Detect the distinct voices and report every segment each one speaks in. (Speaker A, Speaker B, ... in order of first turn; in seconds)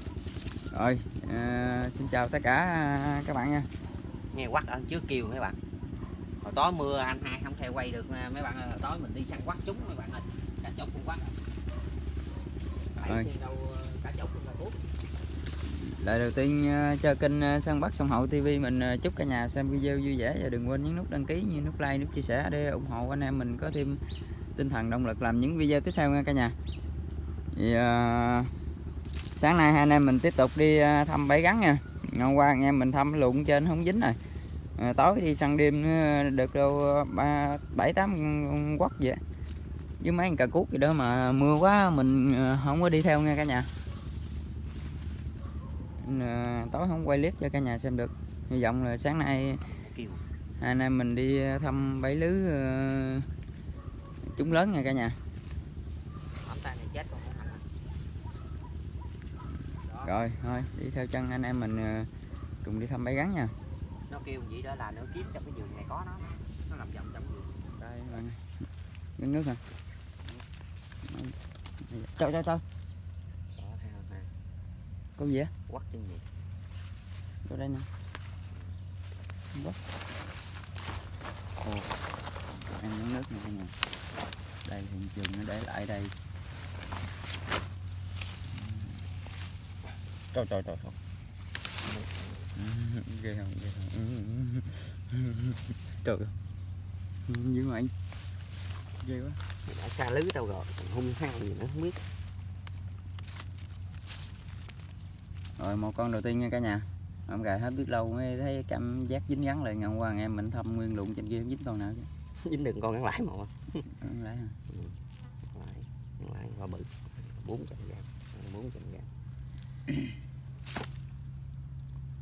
Speaker A: 0.7-3.7, 13.0-13.3, 15.6-24.0, 24.6-26.6, 27.5-28.5, 29.3-34.2, 34.8-39.2, 40.0-43.7, 46.0-49.6, 50.6-53.3, 54.3-55.2, 60.0-62.1, 62.6-63.5, 67.8-68.5, 69.2-69.6, 71.0-72.6, 75.2-75.5, 77.5-77.9, 81.6-82.0, 82.5-83.7, 84.7-86.1, 88.5-89.0, 92.5-96.4, 97.3-97.9, 99.0-99.4, 105.6-112.1, 113.9-114.6
Speaker B: 4.3-5.6, 6.4-11.3, 13.0-14.8, 49.8-50.2, 56.4-57.6, 59.9-60.1, 64.1-67.6, 73.6-74.3, 75.7-76.2, 90.3-91.0, 91.8-92.5, 99.7-102.0, 112.4-113.8, 114.7-115.0, 115.5-119.1